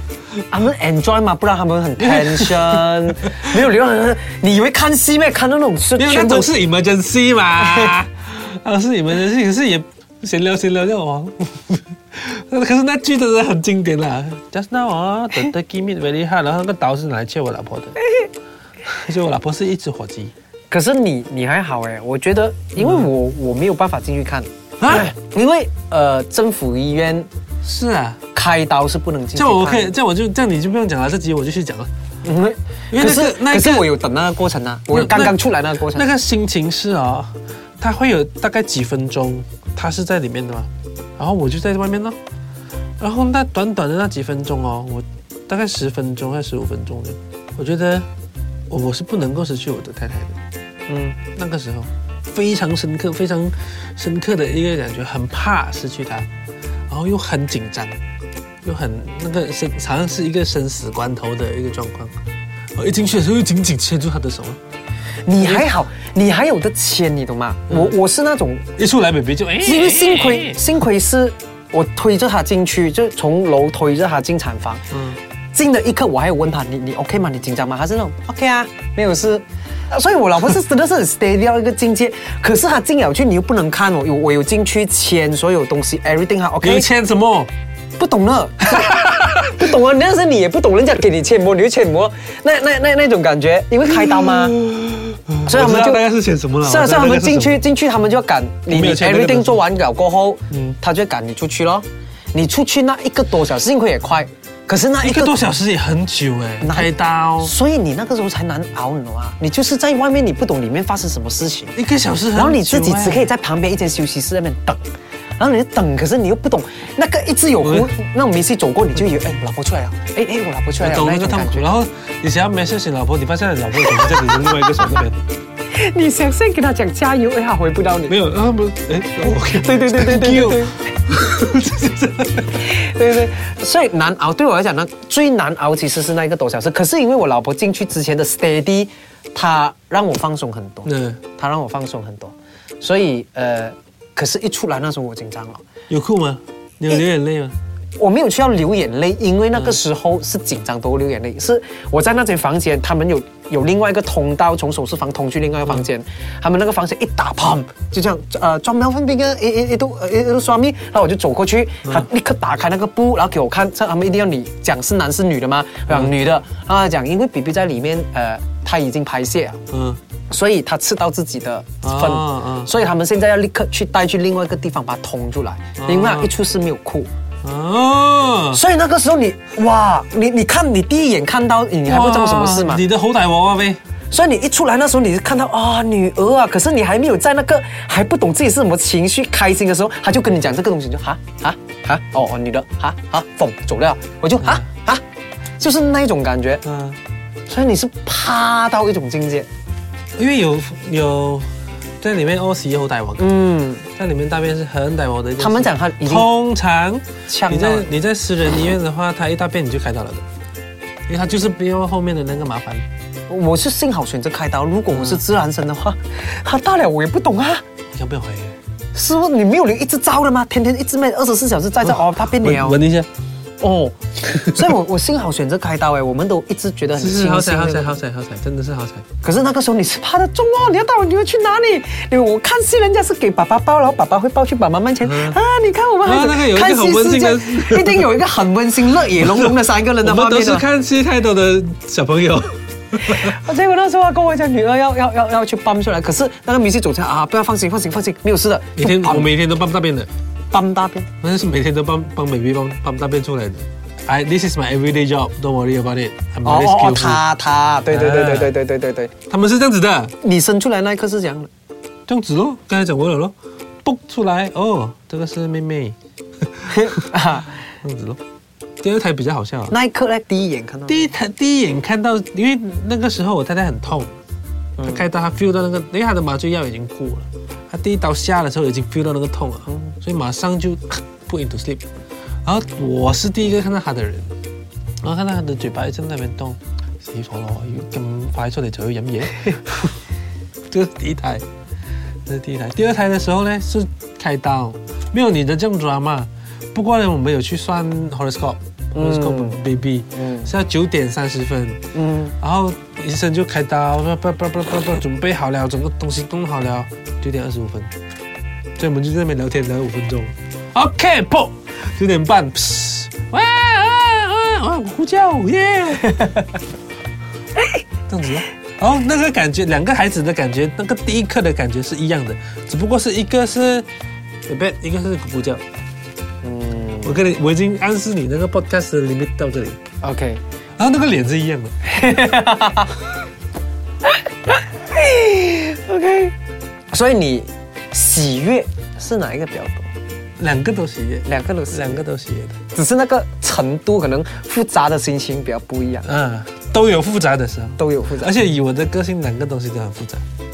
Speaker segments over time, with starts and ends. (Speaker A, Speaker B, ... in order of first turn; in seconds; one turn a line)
Speaker A: 0.5-6.5
Speaker B: 2.0-3.6
Speaker B: 5.9-18.0
Speaker A: 7.6-7.9
Speaker B: 18.8-20.3
Speaker A: 20.7-27.3
Speaker B: 22.8-23.1
Speaker B: 24.8-25.1
Speaker B: 27.6-28.2
Speaker A: 28.3-30.0
Speaker B: 29.4-31.9
Speaker A: 32.2-36.1
Speaker B: 32.9-33.9
Speaker B: 34.9-42.2
Speaker B: 43.0-48.1
Speaker B: 48.7-50.4
Speaker A: 50.9-51.2
Speaker B: 51.2-56.3
Speaker B: 56.9-58.0
Speaker B: 58.6-62.1
Speaker B: 62.8-64.6
Speaker A: 65.2-68.7
Speaker B: 65.4-65.7
Speaker B: 67.7-68.0
Speaker B: 68.8-70.7
Speaker A: 69.6-74.8
Speaker B: 74.9-75.2
Speaker A: 75.5-86.9
Speaker B: 86.6-87.5
Speaker A: 88.0-94.6
Speaker B: 88.7-89.6
Speaker B: 93.8-97.6
Speaker A: 95.4-96.0
Speaker A: 96.6-105.5
Speaker B: 98.7-99.6
Speaker B: 100.5-100.8
Speaker B: 105.0-107.5
Speaker A: 106.6-111.8
Speaker B: 111.7-113.3
Speaker A: 112.3-114.8
Speaker A: 115.4-121.7
Speaker B: 117.6-117.9
Speaker B: 120.8-125.2
Speaker A: 123.9-124.7
Speaker A: 125.7-128.2
Speaker B: 128.1-132.7
Speaker A: 129.2-130.8
Speaker A: 132.6-145.6
Speaker B: 140.8-141.2
Speaker B: 145.9-147.6
Speaker A: 148.0-169.6
Speaker B: 149.5-149.8
Speaker B: 165.9-166.1
Speaker B: 169.7-170.0
Speaker A: 170.3-177.1
Speaker B: 171.8-172.7
Speaker B: 175.8-176.3
Speaker B: 177.4-178.6
Speaker A: 178.5-182.8
Speaker B: 181.8-183.8
Speaker A: 184.1-195.0
Speaker A: 195.6-196.6
Speaker B: 196.6-197.0
Speaker A: 197.5-199.5
Speaker B: 200.2-201.5
Speaker B: 202.0-203.3
Speaker A: 203.2-203.9
Speaker B: 203.9-210.2
Speaker A: 205.4-206.3
Speaker A: 207.3-207.9
Speaker B: 211.1-212.8
Speaker A: 213.3-217.6
Speaker B: 214.9-215.2
Speaker B: 217.9-218.6
Speaker A: 218.9-222.8
Speaker B: 221.8-223.1
Speaker A: 223.6-228.0
Speaker B: 224.2-224.7
Speaker B: 226.9-229.0
Speaker A: 229.2-240.7
Speaker B: 235.0-235.4
Speaker B: 236.0-238.2
Speaker B: 239.1-243.3
Speaker A: 243.0-249.3
Speaker B: 248.8-250.1
Speaker A: 250.5-251.1
Speaker B: 251.2-257.2
Speaker A: 256.4-259.1
Speaker B: 257.9-258.5
Speaker B: 259.3-260.1
Speaker A: 260.2-261.5
Speaker B: 262.1-267.1
Speaker A: 266.6-267.6
Speaker B: 267.8-268.2
Speaker B: 268.8-269.7
Speaker A: 269.7-271.1
Speaker B: 270.9-274.2
Speaker A: 274.8-275.0
Speaker B: 274.8-281.8
Speaker B: 282.4-284.3
Speaker B: 285.0-290.0
Speaker B: 290.7-291.4
Speaker B: 292.2-301.8
Speaker A: 298.9-299.6
Speaker A: 300.1-300.5
Speaker A: 301.9-302.3
Speaker B: 302.4-307.9
Speaker B: 308.8-316.4
Speaker B: 318.1-323.9
Speaker B: 324.5-325.6
Speaker A: 326.4-327.2
Speaker B: 327.0-329.8
Speaker A: 330.0-330.4
Speaker B: 330.8-331.8
Speaker A: 331.8-332.9
Speaker A: 334.5-336.3
Speaker A: 336.9-339.9
Speaker B: 340.4-342.6
Speaker A: 341.2-342.0
Speaker A: 342.7-346.1
Speaker B: 346.0-350.2
Speaker A: 347.8-348.3